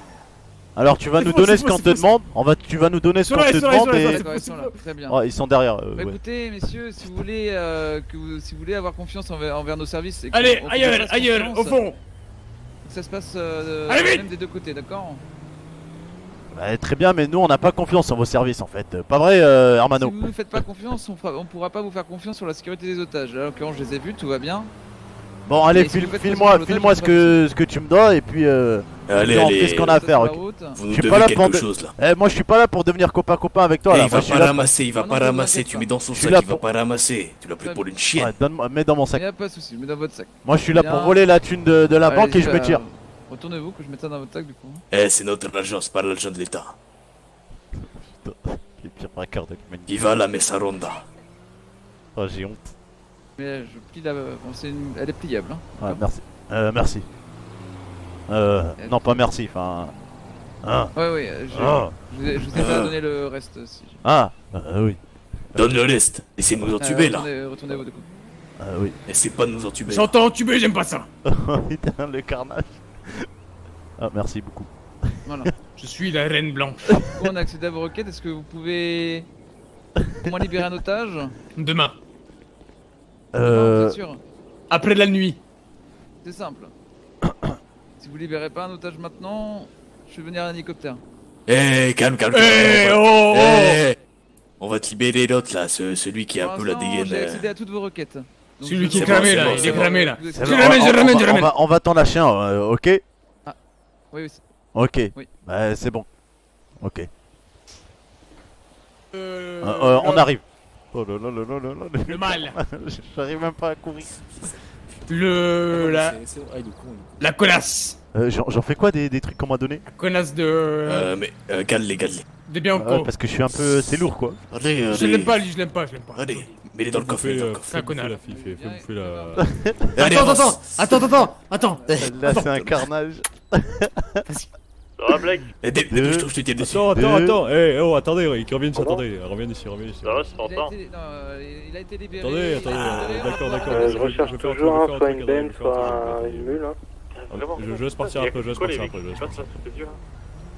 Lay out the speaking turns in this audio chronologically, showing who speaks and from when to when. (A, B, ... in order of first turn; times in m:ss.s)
0:00.8-0:04.2 A
0:01.2-0:02.1 B
0:03.2-0:04.7 B
0:04.0-0:05.2 C
0:05.1-0:06.2 A
0:06.0-0:11.8 C
0:10.3-0:12.0 B
0:12.8-0:15.2 C
0:13.9-0:14.3 B
0:16.5-0:20.2 A
0:19.9-0:24.7 C
0:25.5-0:34.7 A
0:25.7-0:27.4 C
0:29.1-0:30.0 D
0:29.7-0:30.8 C
0:30.7-0:32.0 D
0:33.9-0:38.3 D
0:35.0-0:35.9 C
0:36.1-0:36.6 A
0:38.2-0:39.2 A
0:39.1-0:41.2 C
0:40.4-0:42.8 A
0:42.1-0:44.8 C
0:44.9-0:46.8 D
0:47.8-0:50.2 A
0:49.9-0:51.0 D
0:52.2-0:52.7 A
0:53.4-0:56.0 C
0:55.8-0:57.0 A
0:58.3-0:59.9 A
0:58.8-0:59.2 C
1:00.6-1:00.9 A
1:01.0-1:04.0 C
1:01.5-1:01.9 A
1:02.5-1:02.9 D
1:04.0-1:05.0 A
1:05.6-1:07.3 D
1:06.8-1:08.0 C
1:08.6-1:09.0 A
1:09.1-1:10.1 D
1:09.9-1:11.1 B
1:11.2-1:13.3 A
1:14.0-1:15.5 A
1:15.3-1:15.5 C
1:15.6-1:16.9 B
1:16.9-1:17.3 A
1:17.2-1:19.3 C
1:20.3-1:21.3 C
1:21.6-1:22.0 B
1:23.3-1:24.0 A
1:23.4-1:24.2 C
1:24.7-1:25.4 B
1:26.2-1:26.7 C
1:28.0-1:31.0 C
1:31.5-1:34.0 D
1:32.3-1:33.9 B
1:34.6-1:37.5 D
1:36.4-1:41.1 C
1:38.6-1:41.5 B
1:38.9-1:40.0 D
1:40.3-1:43.0 A
1:44.1-1:44.4 C
1:44.7-1:46.1 A
1:46.8-1:47.1 A
1:49.1-1:50.3 B
1:49.6-1:54.1 A
1:52.1-1:52.6 B
1:55.1-1:56.2 B
1:55.7-1:57.1 D
1:57.2-1:58.0 B
1:58.1-1:59.8 A
1:59.9-2:01.1 B
2:00.8-2:02.3 D
2:02.5-2:03.1 B
2:02.7-2:04.4 A
2:03.5-2:05.4 D
2:04.9-2:06.4 B
2:06.1-2:07.8 D
2:06.9-2:09.5 E
2:07.7-2:08.2 B
2:08.2-2:09.9 C
2:09.4-2:10.3 A
2:09.9-2:11.3 D
2:10.0-2:12.6 B
2:11.4-2:12.1 C
2:11.9-2:14.2 A
2:12.0-2:12.6 D
2:15.0-2:15.5 F
2:15.6-2:16.9 D
2:15.9-2:16.3 A
2:16.6-2:20.4 E
2:16.9-2:17.4 A
2:18.7-2:19.0 G
2:20.0-2:20.7 F
2:20.4-2:24.3 C
2:22.2-2:26.6 E
2:23.6-2:26.8 G
2:27.1-2:30.0 F
2:27.3-2:29.6 E